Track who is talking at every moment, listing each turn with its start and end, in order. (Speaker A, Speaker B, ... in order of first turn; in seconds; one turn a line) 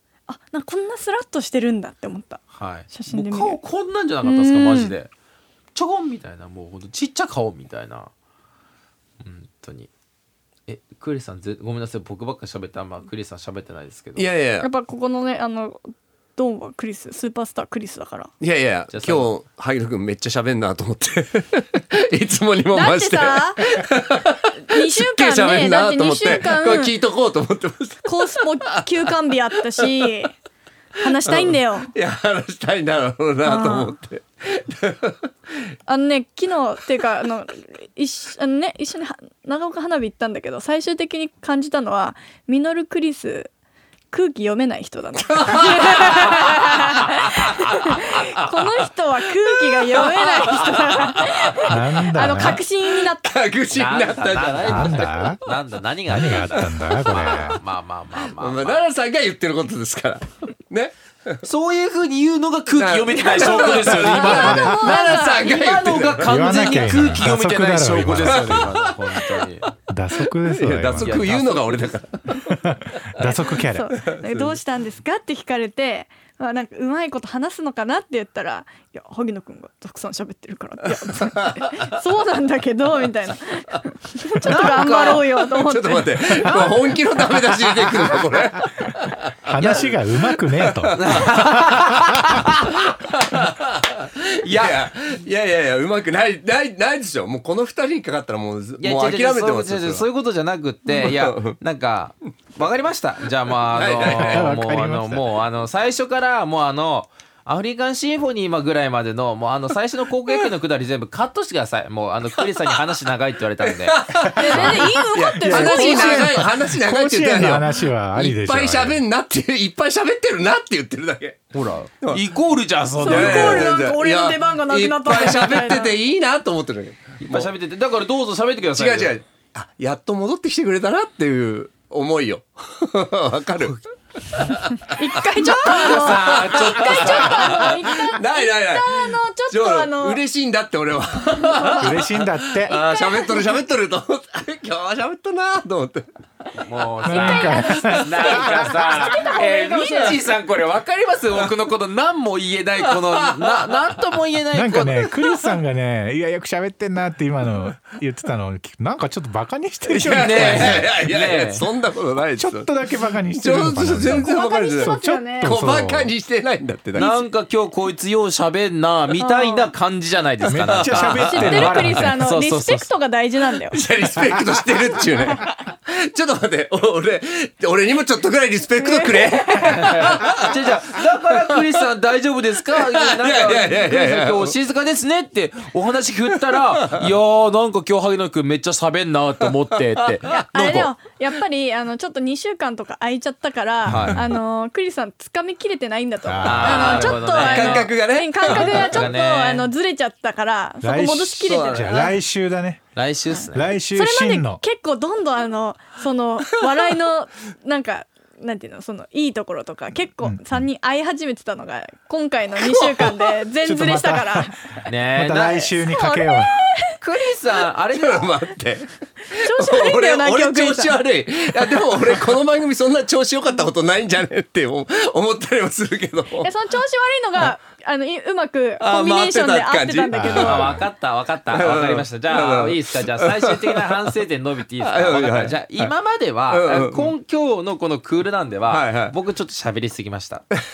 Speaker A: 0.3-3.6
Speaker B: 2.5-5.1
Speaker A: 4.2-4.9
Speaker B: 5.7-8.1
Speaker B: 9.2-9.9
Speaker B: 10.7-14.3
Speaker C: 14.2-14.7
Speaker A: 14.6-18.3
Speaker C: 18.4-29.1
Speaker B: 18.9-19.3
Speaker A: 22.7-23.6
Speaker A: 24.6-26.9
Speaker A: 28.0-30.3
Speaker A: 31.0-31.9
Speaker C: 31.2-35.3
Speaker A: 33.4-33.9
Speaker A: 35.9-43.5
Speaker A: 44.1-53.3
Speaker C: 45.2-48.8
Speaker C: 49.7-51.8
Speaker D: 51.7-52.6
Speaker C: 52.4-55.0
Speaker B: 53.7-58.8
Speaker D: 54.6-55.4
Speaker D: 56.1-57.6
Speaker C: 58.3-61.4
Speaker B: 61.4-69.7
Speaker C: 62.8-67.2
Speaker A: 63.3-66.0
Speaker D: 66.2-68.7
Speaker C: 68.2-69.4
Speaker D: 69.9-71.2
Speaker C: 70.4-72.6
Speaker B: 71.0-71.9
Speaker D: 72.5-74.0
Speaker A: 73.2-87.0
Speaker C: 74.0-74.5
Speaker C: 81.0-81.9
Speaker B: 84.4-85.2
Speaker C: 84.5-84.9
Speaker C: 85.5-100.0
Speaker D: 89.5-91.0
Speaker B: 89.6-89.9
Speaker B: 90.9-92.8
Speaker B: 94.4-94.8
Speaker B: 98.8-114.0
Speaker C: 100.8-101.6
Speaker C: 103.6-104.5
Speaker D: 104.0-105.3
Speaker C: 113.7-121.5
Speaker D: 114.3-114.8
Speaker A: 114.3-116.4
Speaker D: 115.4-119.0
Speaker B: 121.5-123.7
Speaker A: 122.9-126.0
Speaker C: 123.0-127.5
Speaker B: 127.2-129.1
Speaker C: 128.7-133.8
Speaker C: 134.3-146.1
Speaker A: 134.8-140.2
Speaker B: 135.4-137.8
Speaker A: 141.4-141.9
Speaker D: 141.8-142.7
Speaker A: 142.7-143.5
Speaker B: 146.6-155.4
Speaker D: 147.0-148.7
Speaker A: 147.0-150.3
Speaker C: 152.9-153.9
Speaker D: 154.5-160.9
Speaker C: 159.8-162.7
Speaker B: 160.1-161.6
Speaker D: 162.4-166.1
Speaker C: 163.3-167.2
Speaker A: 164.0-165.6
Speaker B: 166.9-172.9
Speaker A: 169.2-169.7
Speaker D: 170.5-172.2
Speaker C: 170.7-171.3
Speaker A: 171.1-173.8
Speaker C: 173.7-180.6
Speaker A: 175.2-175.5
Speaker A: 178.8-180.1
Speaker B: 179.8-190.9
Speaker C: 181.3-181.6
Speaker C: 182.7-184.5
Speaker C: 190.2-190.9
Speaker A: 190.3-202.0
Speaker D: 193.8-194.2
Speaker B: 193.9-194.3
Speaker D: 196.2-197.1
Speaker B: 196.4-197.9
Speaker C: 196.7-199.1
Speaker B: 198.4-199.7
Speaker D: 200.8-202.8
Speaker C: 201.4-202.2
Speaker B: 202.9-203.7
Speaker D: 203.5-204.6
Speaker A: 203.9-214.6
Speaker D: 210.2-210.6
Speaker C: 212.6-213.3
Speaker D: 213.6-216.6
Speaker B: 214.8-215.7
Speaker A: 215.7-217.0
Speaker B: 217.0-218.3
Speaker C: 217.9-226.5
Speaker A: 219.3-221.0
Speaker A: 226.4-230.7
Speaker C: 228.8-230.8
Speaker D: 230.1-230.8
Speaker B: 230.4-240.4
Speaker C: 231.5-234.0
Speaker C: 234.8-235.9
Speaker C: 236.5-237.1
Speaker C: 238.7-239.1